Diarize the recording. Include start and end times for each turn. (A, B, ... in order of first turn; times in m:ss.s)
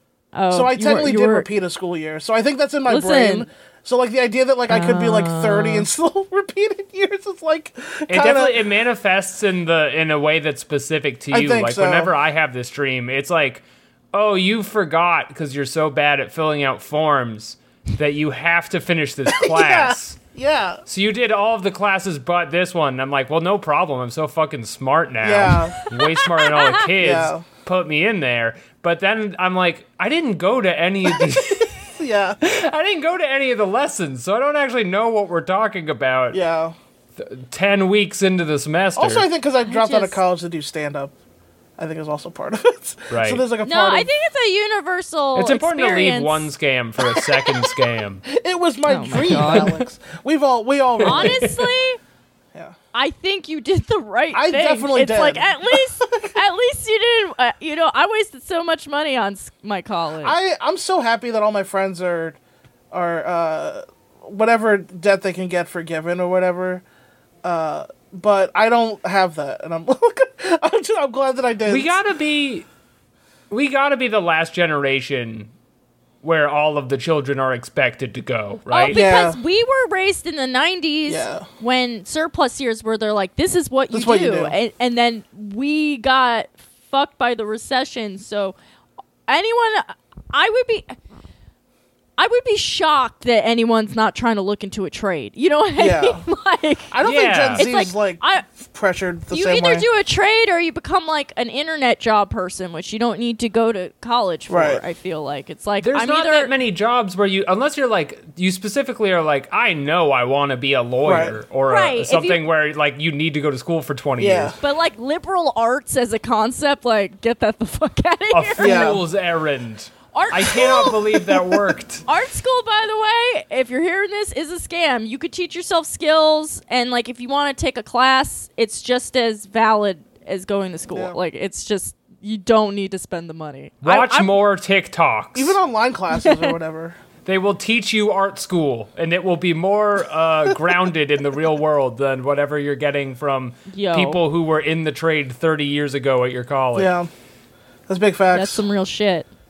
0:00.3-0:01.5 A
0:00.5-0:08.6 B
0:02.9-0:03.5 A
0:04.7-0:05.9 A
0:08.1-0:20.2 C
0:11.3-0:12.1 B
0:19.3-0:20.8 B
0:20.9-0:36.4 C
0:25.2-0:25.8 B
0:25.8-0:26.8 A
0:27.0-0:27.4 B
0:32.0-0:32.4 B
0:36.3-0:36.7 B
0:37.2-0:39.3 C
0:39.0-0:41.1 B
0:39.6-0:40.2 A
0:41.8-0:44.1 B
0:43.1-0:43.4 C
0:43.6-0:46.5 A
0:45.3-0:48.2 C
0:47.0-0:47.7 B
0:48.2-0:51.5 B
0:48.9-0:49.7 A
0:49.2-0:49.7 C
0:51.0-0:51.7 C
0:51.0-0:52.0 A
0:52.9-1:00.4 A
0:54.3-0:56.3 B
1:00.2-1:02.4 B
1:02.9-1:06.8 B
1:07.4-1:12.0 B
1:11.6-1:12.7 C
1:13.5-1:15.5 C
1:16.2-1:19.0 C
1:18.7-1:28.6 A
1:18.9-1:19.4 B
1:21.1-1:21.4 B
1:23.9-1:24.5 B
1:29.3-1:31.0 A
1:32.2-1:36.9 A
1:35.8-1:36.2 B
1:36.9-1:39.8 B
1:37.0-1:37.6 C
1:37.5-1:38.4 A
1:39.3-1:46.5 A
1:44.5-1:44.8 B
1:45.8-1:54.5 C
1:51.0-1:51.4 B
1:51.7-1:52.4 A
1:54.2-1:54.6 B
1:54.6-1:59.0 A
1:58.3-2:02.0 C
1:58.6-1:59.0 B
2:00.1-2:01.3 A
2:02.0-2:14.3 A
2:10.9-2:11.2 B
2:13.8-2:15.6 C
2:15.3-2:17.0 B
2:16.2-2:16.5 A
2:17.2-2:26.9 C
2:23.7-2:24.2 A
2:26.7-2:27.1 B
2:27.9-2:28.6 B
2:28.3-2:29.3 A